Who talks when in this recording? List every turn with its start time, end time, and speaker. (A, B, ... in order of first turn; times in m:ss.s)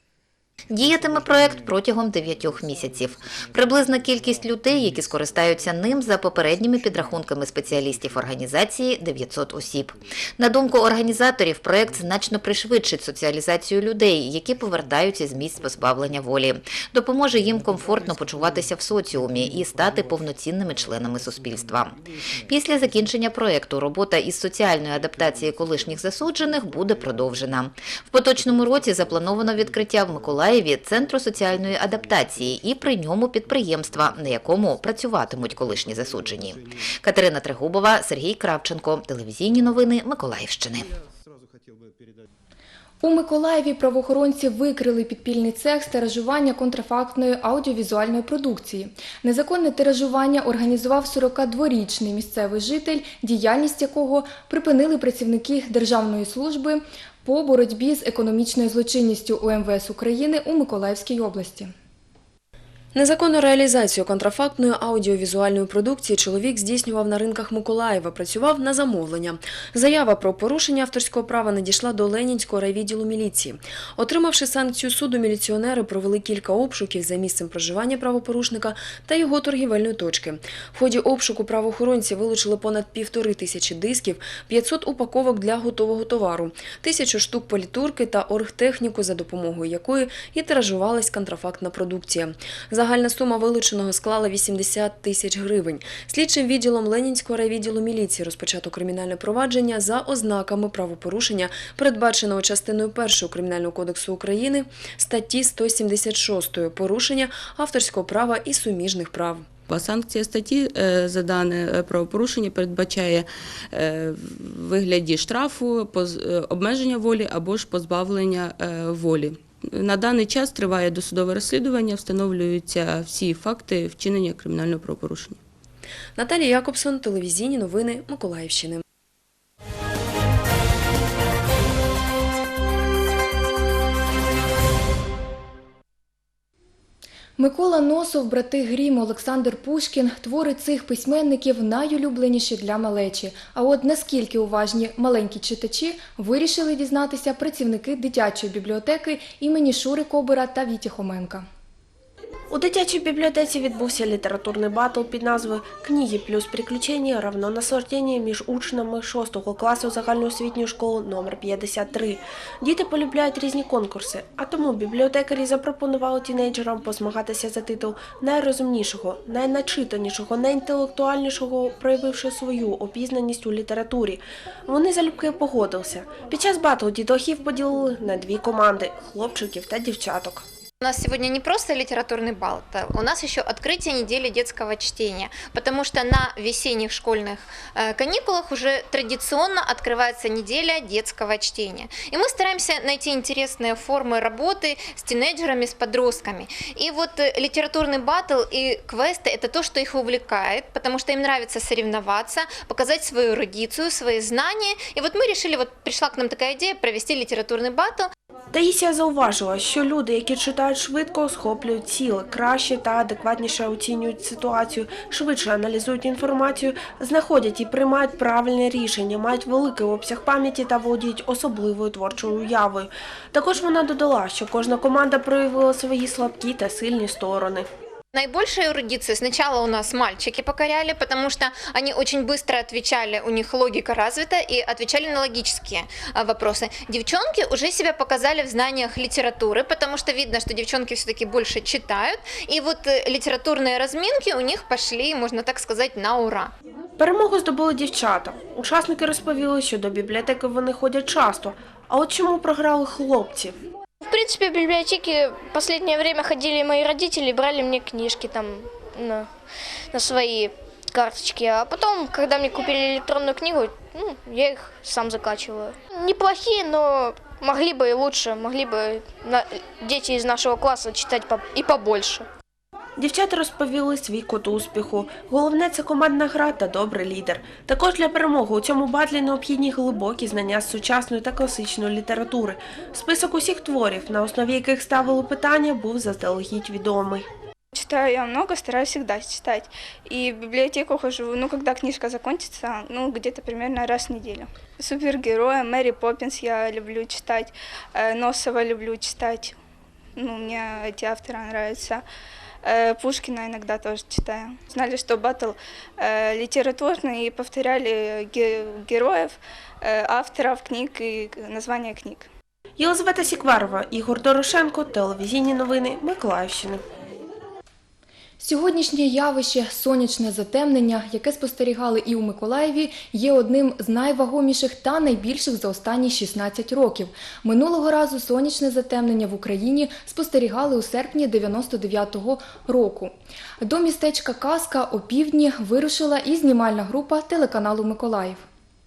0:00.7-0:40.9 A
0:43.0-1:01.7 B
1:02.9-1:49.5 C
1:49.7-2:05.4 D
2:06.2-2:08.8 C
2:17.4-2:31.4 B
2:32.5-3:00.4 E
3:00.8-3:28.1 F
3:28.5-3:47.6 E
3:48.1-4:06.5 F
4:07.0-4:13.5 E
4:14.0-4:19.3 G
4:19.9-4:32.3 G
4:33.0-4:47.3 E
4:47.7-4:59.6 H
5:00.2-5:02.0 H
5:02.6-5:12.3 H
5:12.8-5:16.8 E
5:18.4-5:38.4 B